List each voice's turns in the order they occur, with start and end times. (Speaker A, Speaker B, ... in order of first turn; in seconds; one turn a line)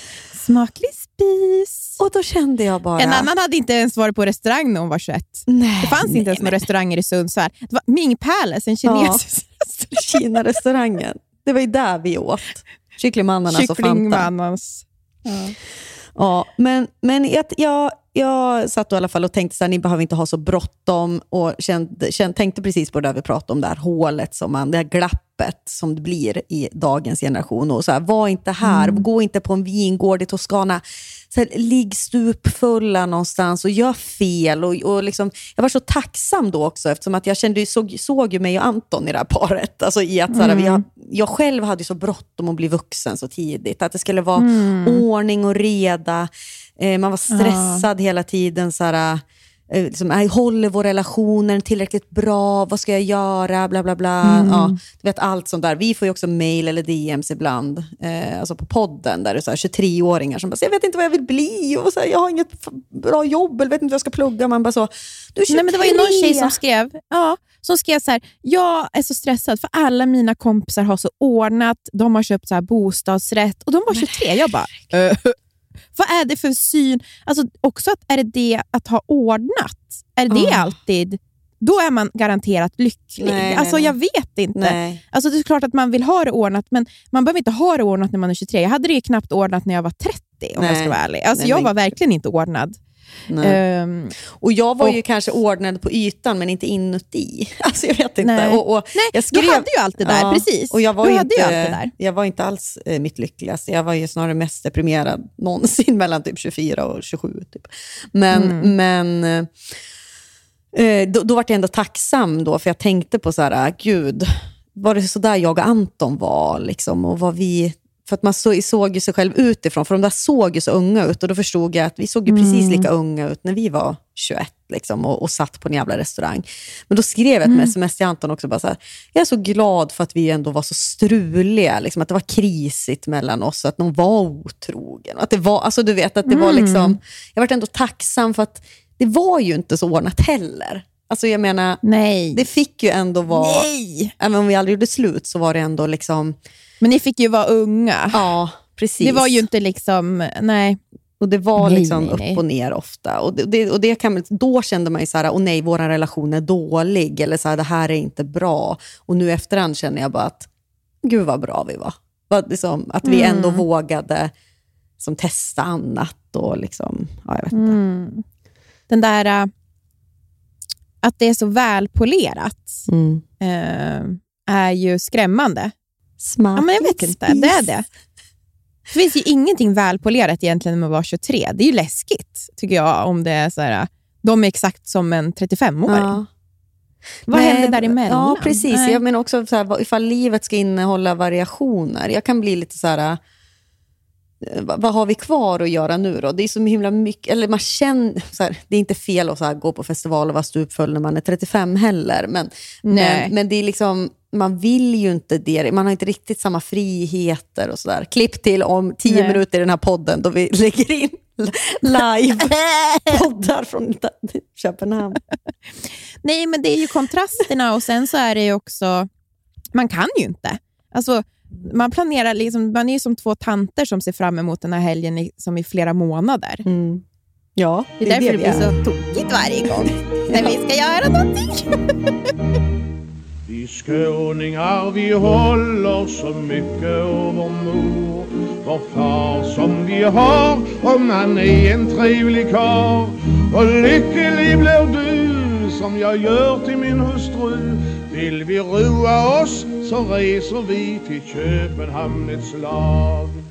Speaker A: 0.3-2.0
Speaker B: 2.0-3.3
Speaker A: 3.0-9.8
Speaker B: 5.5-6.6
Speaker B: 8.8-9.2
Speaker B: 9.8-14.3
Speaker A: 13.5-15.5
Speaker B: 16.1-66.6
Speaker A: 28.6-29.0
Speaker A: 40.3-40.8
Speaker A: 44.4-45.0
Speaker A: 47.3-47.8
Speaker A: 54.2-54.8
Speaker A: 65.5-75.3
Speaker B: 73.9-74.9
Speaker A: 76.0-92.8
Speaker B: 80.3-80.7
Speaker B: 83.2-83.9
Speaker B: 84.5-85.0
Speaker B: 90.6-91.9
Speaker B: 93.3-93.6
Speaker A: 93.4-94.2
Speaker B: 94.3-109.5
Speaker A: 98.2-101.9
Speaker A: 108.3-108.7
Speaker B: 110.7-141.8
Speaker A: 122.3-122.9
Speaker A: 127.5-127.7
Speaker A: 136.3-137.0
Speaker A: 141.8-142.4
Speaker B: 142.3-143.7
Speaker A: 143.3-144.1
Speaker B: 144.2-146.3
Speaker A: 146.8-148.2
Speaker B: 148.1-149.4
Speaker A: 149.0-150.8
Speaker B: 151.2-160.5
Speaker A: 151.6-152.4
Speaker B: 161.0-164.3
Speaker A: 163.0-163.6
Speaker B: 165.0-167.8
Speaker A: 167.5-168.2
Speaker A: 168.9-169.5
Speaker A: 171.0-172.8
Speaker B: 172.9-173.2
Speaker A: 173.4-175.7
Speaker B: 176.2-177.7
Speaker A: 176.6-177.8
Speaker A: 178.9-186.2
Speaker B: 185.9-186.3
Speaker B: 187.3-193.2
Speaker A: 187.3-189.0
Speaker B: 194.4-212.5
Speaker A: 202.8-203.3
Speaker A: 209.1-209.4
Speaker A: 212.5-212.8
Speaker B: 213.1-215.2
Speaker A: 216.2-219.1
Speaker A: 219.7-226.6
Speaker B: 226.6-227.0
Speaker B: 227.6-228.7
Speaker A: 228.0-232.1
Speaker C: 233.5-253.3